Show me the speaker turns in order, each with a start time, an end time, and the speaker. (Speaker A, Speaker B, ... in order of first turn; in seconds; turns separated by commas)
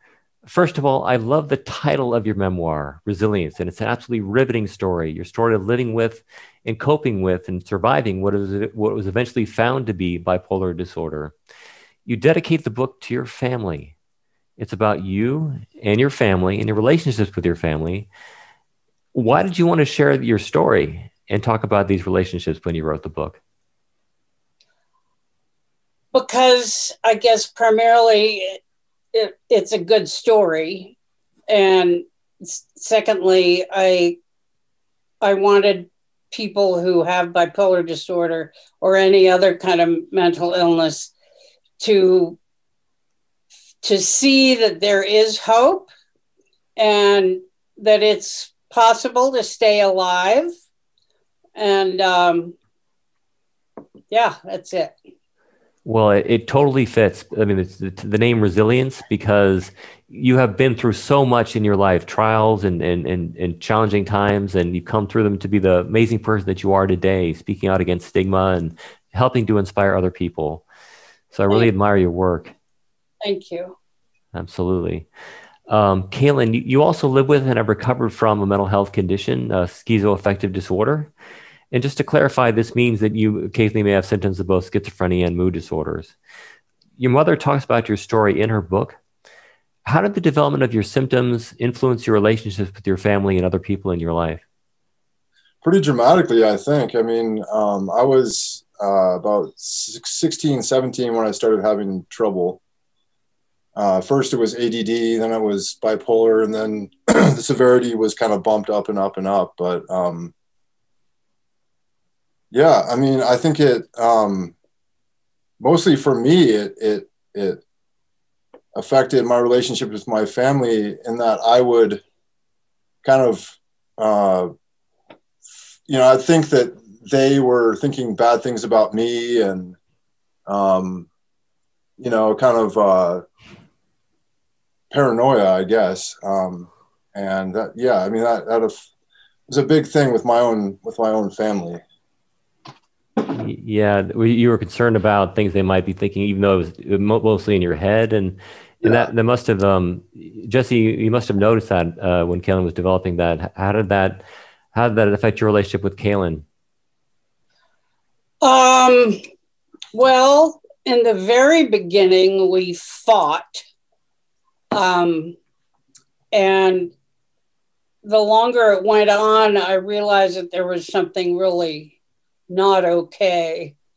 Speaker A: 0.4-11.3, Speaker A: 12.1-13.9, Speaker A: 14.6-18.1, Speaker A: 19.1-23.4, Speaker B: 26.1-28.6, Speaker B: 29.1-30.9, Speaker B: 31.5-34.2, Speaker B: 35.2-41.1, Speaker B: 41.8-42.4, Speaker B: 43.8-45.9, Speaker B: 46.8-50.5, Speaker B: 51.6-52.5, Speaker B: 54.1-55.0, Speaker A: 55.9-70.6, Speaker A: 71.3-72.5, Speaker B: 73.2-73.8, Speaker A: 74.3-75.1, Speaker A: 75.7-81.1, Speaker A: 81.7-86.2, Speaker A: 87.0-89.0, Speaker A: 89.8-94.4, Speaker C: 95.6-102.6, Speaker C: 103.8-110.3, Speaker C: 112.5-114.5, Speaker C: 115.6-117.6, Speaker C: 118.8-122.0, Speaker C: 123.0-124.5, Speaker C: 125.9-129.8, Speaker C: 130.5-131.1, Speaker C: 132.0-133.2, Speaker C: 134.9-138.8, Speaker C: 139.5-141.8, Speaker A: 143.3-156.4, Speaker B: 158.4-159.2, Speaker B: 159.9-163.6, Speaker B: 164.7-165.4, Speaker B: 166.3-166.9, Speaker B: 168.0-171.9, Speaker B: 172.5-173.8